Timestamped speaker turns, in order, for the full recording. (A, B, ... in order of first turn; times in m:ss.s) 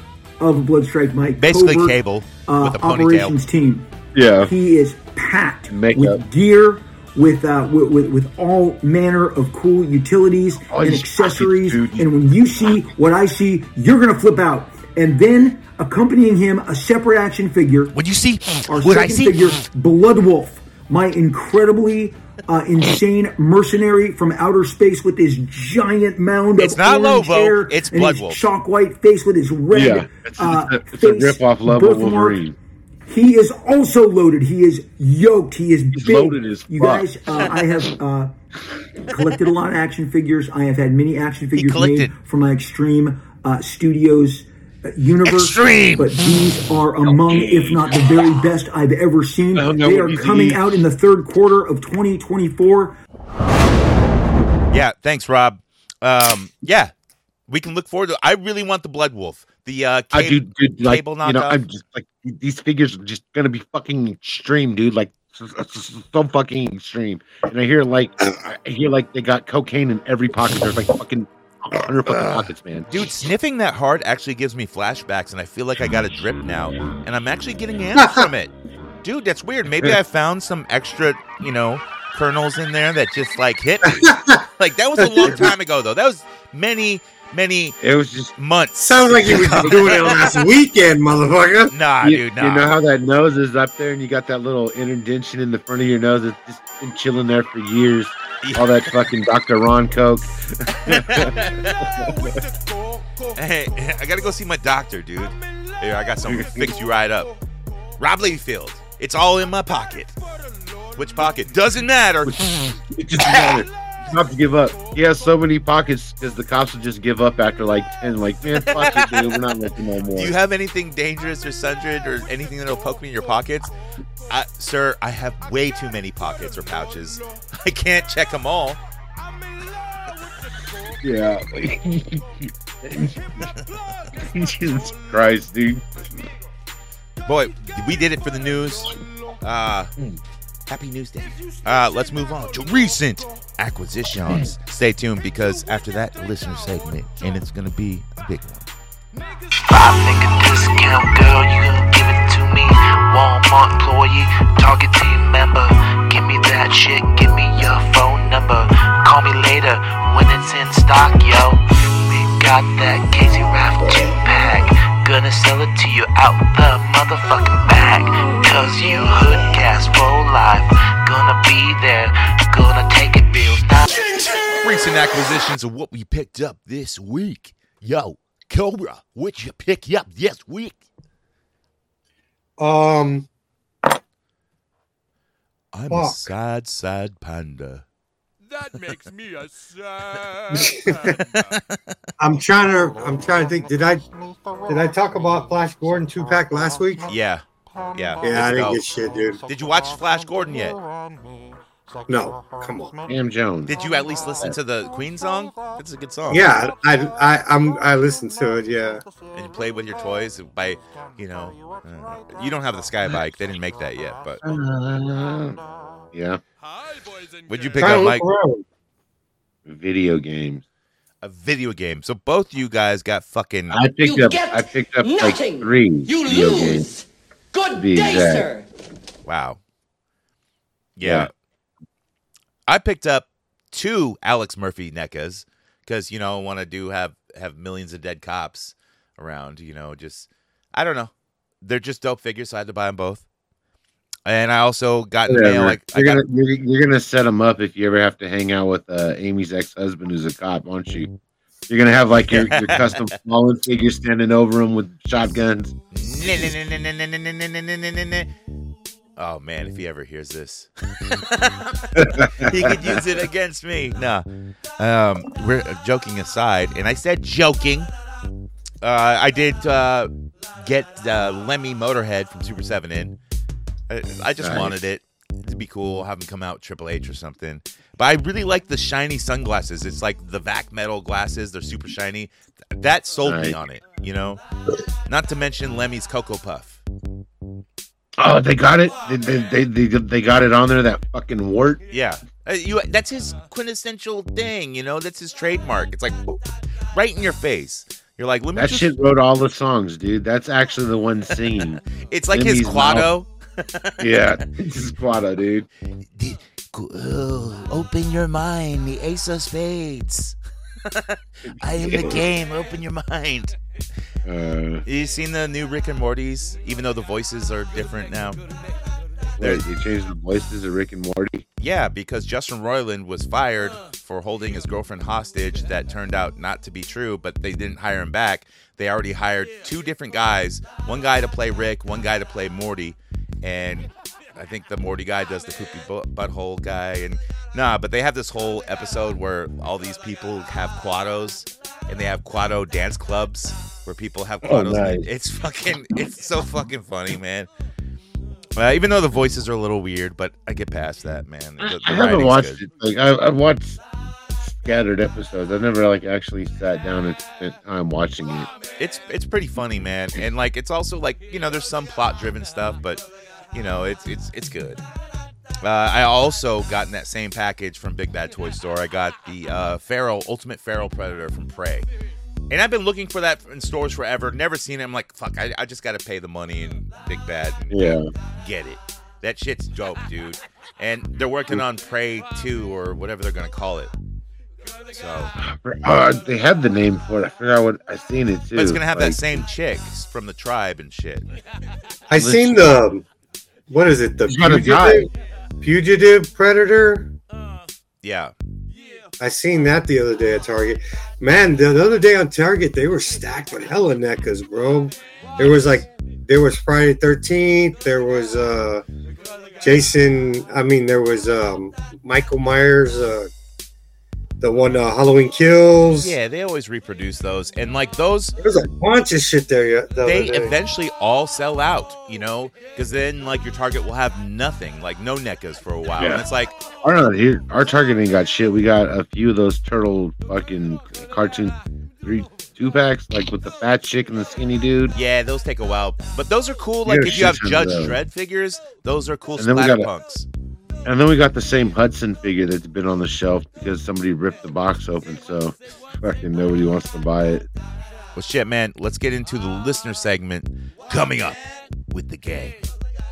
0:00.4-0:03.9 A
0:01.4-0:03.4 B
0:04.1-0:04.5 C
0:04.4-0:17.9 A
0:05.7-0:06.2 C
0:10.7-0:12.1 C
0:17.9-0:19.4 B
0:18.7-0:32.5 A
0:26.6-0:28.4 B
0:29.7-0:32.6 C
0:33.1-0:38.3 A
0:35.9-0:37.1 C
0:39.1-0:53.0 A
0:41.5-0:42.1 B
0:45.2-0:46.2 B
0:47.1-0:47.8 C
0:49.6-0:50.6 C
0:54.7-0:56.9 B
0:57.5-1:01.6 B
1:00.1-1:13.0 C
1:12.9-1:18.5 B
1:19.0-1:27.8 B
1:24.0-1:24.4 D
1:25.0-1:25.3 D
1:27.8-1:28.3 C
1:28.4-1:30.5 B
1:28.8-1:31.7 D
1:31.7-1:32.7 B
1:32.0-1:42.3 C
1:38.4-1:39.0 B
1:40.7-1:42.1 B
1:42.1-1:42.4 E
1:43.4-1:47.3 B
1:46.3-1:46.7 C
1:48.0-1:50.2 B
1:51.0-1:53.6 B
1:52.2-2:00.4 C
1:58.6-1:59.4 B
2:00.1-2:03.7 B
2:04.3-2:08.8 B
2:11.0-2:13.5 C
2:14.2-2:16.0 C
2:17.2-2:19.9 B
2:20.7-2:28.7 B
2:29.6-2:54.1 F
2:54.4-3:00.8 B
3:02.6-3:03.3 D
3:05.7-3:07.8 B
3:05.9-3:06.2 D
3:08.5-3:11.4 E
3:10.6-3:11.1 D
3:11.4-3:11.8 B
3:12.2-3:14.0 D
3:14.7-3:17.1 D
3:17.1-3:18.8 B
3:18.2-3:19.4 D
3:19.5-3:20.8 B
3:22.1-3:23.0 D
3:23.1-3:23.8 C
3:23.7-3:26.6 B
3:26.3-3:29.0 D
3:29.4-3:34.4 B
3:34.4-3:35.6 C
3:36.1-3:36.4 C
3:36.6-3:38.0 E
3:37.5-3:38.3 B
3:37.8-3:38.6 D
3:39.7-3:40.6 C
3:41.2-3:43.8 B
3:43.7-3:46.9 C
3:44.0-3:47.0 G
3:47.5-3:48.6 G
3:47.7-3:48.5 C
3:49.2-3:49.6 B
3:51.0-3:51.3 B
3:51.0-3:51.3 C
3:52.7-4:03.2 B
4:04.3-4:06.3 B
4:05.3-4:11.1 C
4:11.7-4:15.8 C
4:12.3-4:13.1 B
4:15.9-4:18.3 B
4:19.2-4:24.3 B
4:22.0-4:23.0 C
4:24.8-4:27.9 B
4:28.8-4:33.2 B
4:33.9-4:44.4 B
4:34.4-4:34.8 C
4:43.2-4:43.6 C
4:45.1-4:46.8 B
4:48.2-4:51.8 C
4:51.9-4:59.0 B
4:58.6-5:03.1 C
5:01.9-5:04.1 B
5:04.0-5:05.7 C
5:06.2-5:10.4 B
5:10.9-5:13.6 B
5:11.7-5:12.2 C
5:14.2-5:14.8 C
5:14.8-5:18.4 B
5:19.4-5:21.4 C
5:19.4-5:19.6 B
5:21.6-5:47.5 B
5:44.4-5:45.1 C
5:48.6-5:52.6 B
5:51.6-5:53.8 C
5:54.4-5:58.5 C
5:58.8-6:04.8 B
6:05.6-6:11.9 B
6:12.5-6:23.9 B
6:17.7-6:18.1 C
6:24.9-6:25.3 B
6:25.4-6:29.4 C
6:28.6-6:31.3 B
6:32.1-6:33.0 D
6:32.2-6:32.8 C
6:33.7-6:35.1 D
6:34.3-6:35.1 C
6:35.6-6:37.1 D
6:38.0-6:38.3 B
6:39.2-6:48.9 D
6:45.4-6:45.8 B
6:49.6-6:53.3 D
6:54.4-6:56.1 D
6:56.0-6:58.4 B
6:58.4-7:00.6 D
7:00.0-7:06.6 B
7:06.0-7:06.2 C
7:06.8-7:14.9 C
7:14.9-7:20.3 B
7:16.9-7:18.0 C
7:19.4-7:19.9 C
7:20.8-7:27.5 C
7:28.2-7:32.6 B